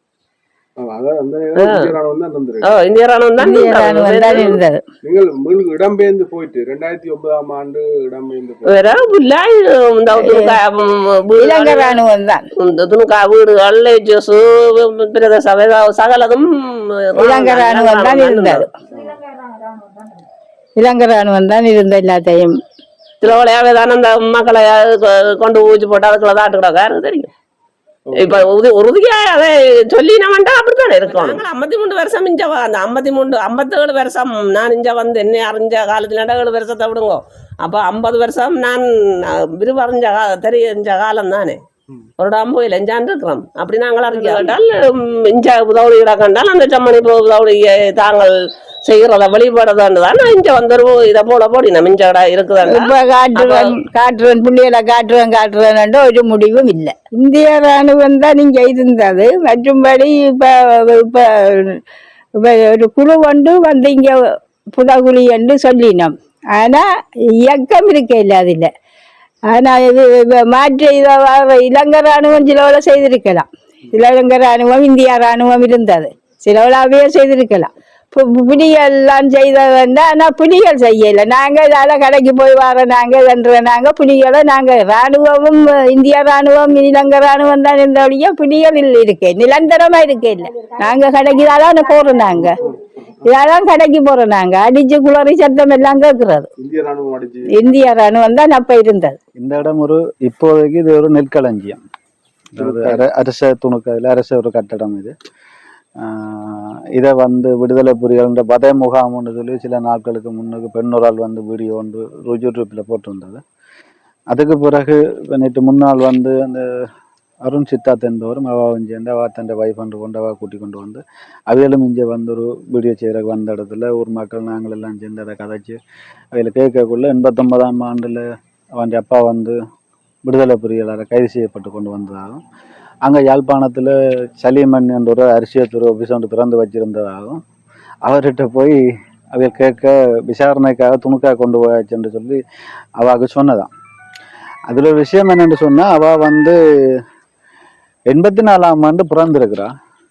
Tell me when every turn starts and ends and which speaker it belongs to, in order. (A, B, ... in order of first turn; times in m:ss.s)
0:00.8-0:02.8 A
0:01.6-0:01.8 B
0:02.6-0:04.6 B
0:03.4-0:04.8 C
0:05.0-0:08.9 A
0:08.7-0:12.0 B
0:10.2-0:10.6 C
0:11.4-0:12.5 C
0:12.6-0:18.6 B
0:17.2-0:18.7 C
0:20.8-0:22.6 C
0:23.2-0:27.3 B
0:28.1-0:28.5 A
0:28.1-0:41.6 B
0:42.2-0:48.3 B
0:48.8-0:53.7 B
0:52.6-1:01.8 C
1:02.4-1:08.7 C
1:09.5-1:32.6 C
1:32.3-1:32.8 A
1:33.2-1:36.5 C
1:36.6-1:37.5 A
1:37.5-1:39.2 C
1:39.4-1:41.8 D
1:42.5-1:45.1 D
1:42.6-1:43.0 A
1:46.0-1:53.4 D
1:54.3-1:56.9 D
1:57.4-2:05.8 D
2:06.3-2:09.6 D
2:10.2-2:12.4 D
2:13.0-2:17.4 D
2:18.0-2:18.8 D
2:19.3-2:22.4 D
2:23.0-2:23.7 D
2:24.7-2:27.0 D
2:28.1-2:29.7 D